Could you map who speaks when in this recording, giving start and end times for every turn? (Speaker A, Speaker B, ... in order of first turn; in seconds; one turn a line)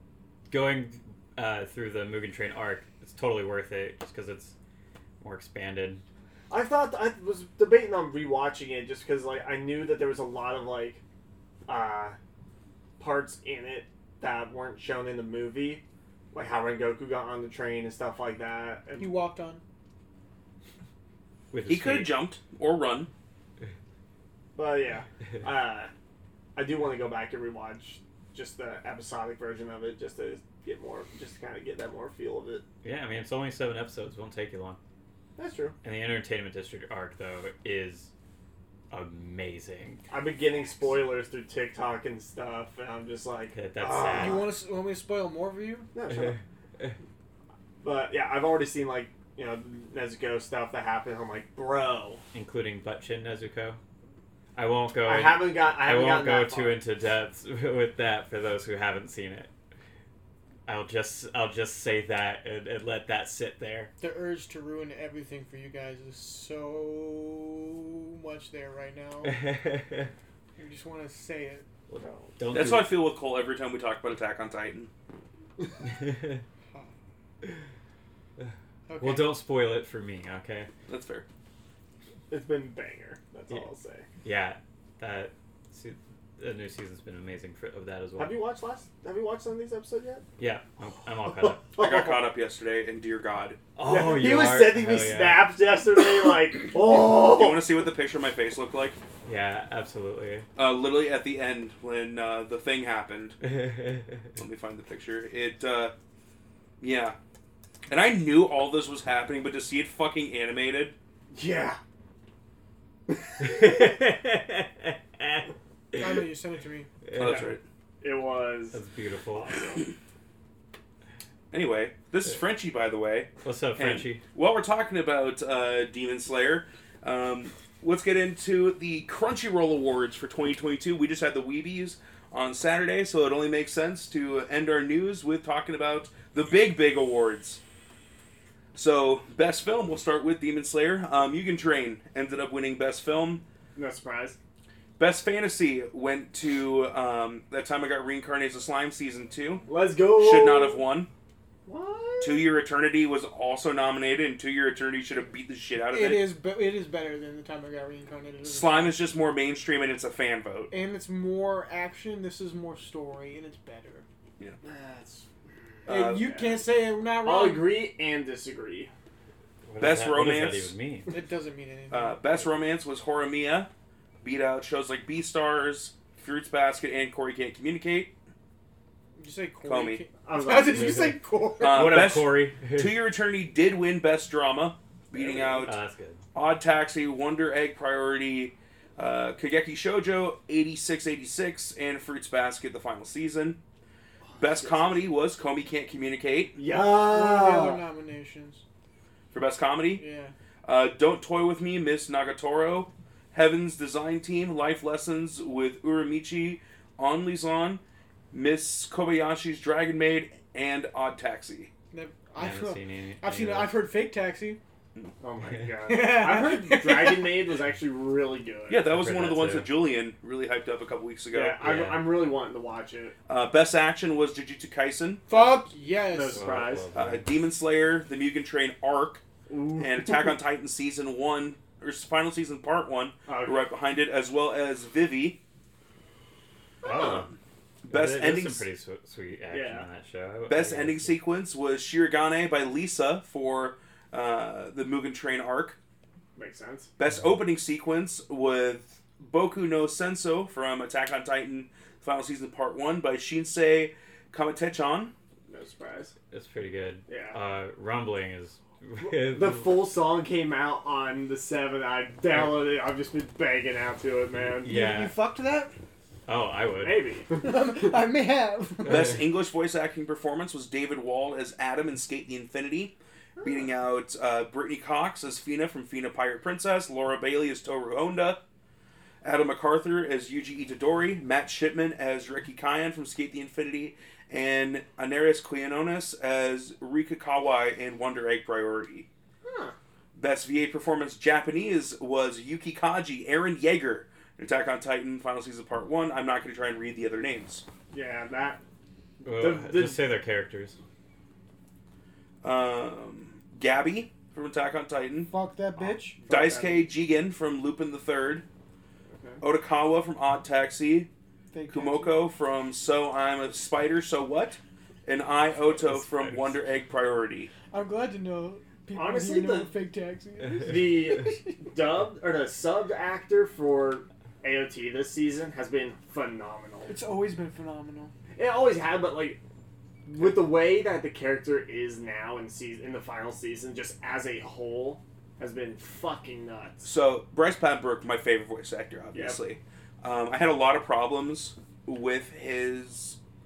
Speaker A: 0.5-4.5
Speaker A: 5.2-6.0
Speaker B: 6.5-11.0
Speaker B: 11.7-12.2
Speaker B: 13.0-19.1
Speaker C: 19.0-19.6
Speaker A: 21.5-22.1
Speaker D: 21.7-23.1
Speaker B: 24.6-25.9
Speaker B: 26.6-32.6
Speaker A: 32.8-34.8
Speaker B: 35.4-35.8
Speaker A: 35.8-38.1
Speaker A: 38.9-40.0
Speaker B: 40.1-44.5
Speaker A: 43.5-44.4
Speaker C: 44.1-45.9
Speaker B: 45.9-46.4
Speaker B: 47.8-52.2
Speaker A: 52.3-53.8
Speaker A: 54.5-59.5
Speaker B: 55.0-56.8
Speaker A: 60.6-63.9
Speaker C: 64.0-69.4
Speaker A: 69.2-70.1
Speaker C: 70.6-71.7
Speaker B: 71.9-72.3
Speaker A: 71.9-72.9
Speaker D: 72.5-74.9
Speaker A: 75.8-76.4
Speaker C: 78.9-79.2
Speaker A: 79.0-80.7
Speaker D: 80.9-81.2
Speaker B: 82.3-84.0
Speaker A: 84.2-88.4
Speaker B: 88.2-90.2
Speaker A: 90.4-91.6
Speaker B: 91.4-92.2
Speaker D: 91.8-93.6
Speaker A: 93.8-95.5
Speaker B: 93.8-97.6
Speaker D: 97.0-99.0
Speaker A: 99.2-100.5
Speaker D: 100.6-103.4
Speaker A: 103.5-104.0
Speaker D: 104.3-105.9
Speaker D: 106.8-107.2
Speaker D: 107.9-110.9
Speaker B: 111.3-111.8
Speaker A: 113.4-116.2
Speaker C: 115.9-116.9
Speaker A: 117.1-117.5
Speaker D: 117.1-117.6
Speaker B: 117.2-118.8
Speaker A: 118.7-119.6
Speaker B: 119.3-119.9
Speaker D: 121.5-137.6
Speaker A: 123.4-124.2
Speaker D: 138.7-143.4
Speaker B: 143.8-144.4
Speaker D: 145.0-149.7
Speaker B: 149.7-150.8
Speaker D: 150.2-151.1
Speaker B: 151.6-152.4
Speaker D: 152.2-156.2
Speaker C: 155.9-159.0
Speaker D: 158.4-160.7
Speaker C: 160.7-164.0
Speaker B: 164.6-166.0
Speaker D: 165.9-166.5
Speaker C: 165.9-167.7
Speaker B: 167.2-168.9
Speaker A: 169.6-171.2
Speaker D: 169.8-170.7
Speaker C: 171.1-172.5
Speaker D: 171.9-173.7
Speaker D: 174.2-178.1
Speaker C: 179.2-182.0
Speaker D: 179.6-180.0
Speaker B: 180.2-181.2
Speaker A: 180.7-183.0
Speaker D: 181.6-185.8
Speaker B: 185.1-185.7
Speaker A: 185.6-186.2
Speaker D: 186.3-193.6
Speaker B: 194.2-195.2
Speaker D: 194.4-196.6
Speaker B: 196.6-197.8
Speaker C: 197.1-198.6
Speaker D: 199.3-200.0
Speaker C: 199.9-200.3
Speaker D: 200.6-207.8
Speaker D: 208.3-211.7
Speaker C: 211.9-214.6
Speaker A: 212.4-213.7
Speaker B: 215.2-218.8
Speaker C: 215.8-217.3
Speaker D: 218.7-221.6
Speaker A: 218.9-219.7
Speaker B: 221.3-223.1
Speaker A: 221.6-222.1
Speaker D: 223.3-225.2
Speaker C: 225.3-226.5
Speaker B: 226.1-226.8
Speaker A: 226.3-227.3
Speaker D: 226.9-229.2
Speaker B: 229.5-230.4
Speaker D: 229.8-235.4
Speaker B: 233.3-233.7
Speaker B: 236.8-237.3
Speaker A: 236.8-237.3
Speaker D: 237.9-238.7
Speaker A: 237.9-241.1
Speaker B: 239.5-239.9
Speaker D: 240.5-245.8
Speaker B: 246.3-246.9
Speaker D: 247.0-255.1
Speaker B: 255.5-256.1
Speaker A: 256.3-259.8
Speaker B: 257.1-257.4
Speaker B: 259.0-264.7
Speaker A: 264.6-265.1
Speaker C: 264.6-265.7
Speaker A: 266.3-267.1
Speaker B: 266.8-267.8
Speaker C: 267.4-269.1
Speaker D: 268.8-278.4
Speaker A: 268.9-269.2
Speaker B: 273.4-273.7
Speaker D: 279.2-289.1
Speaker B: 289.4-289.8
Speaker D: 290.1-297.6
Speaker B: 297.9-298.6
Speaker A: 299.2-300.8
Speaker B: 299.3-300.0
Speaker D: 302.4-305.3
Speaker C: 305.3-306.2
Speaker B: 306.1-306.9
Speaker D: 306.3-308.4
Speaker B: 309.1-309.4
Speaker D: 309.4-311.1
Speaker C: 311.5-312.2
Speaker D: 311.7-317.5
Speaker A: 315.8-316.5
Speaker C: 317.7-321.5
Speaker B: 318.9-319.7
Speaker B: 320.6-326.9
Speaker C: 326.9-328.1
Speaker B: 328.3-329.4
Speaker B: 330.1-336.9
Speaker D: 336.8-343.2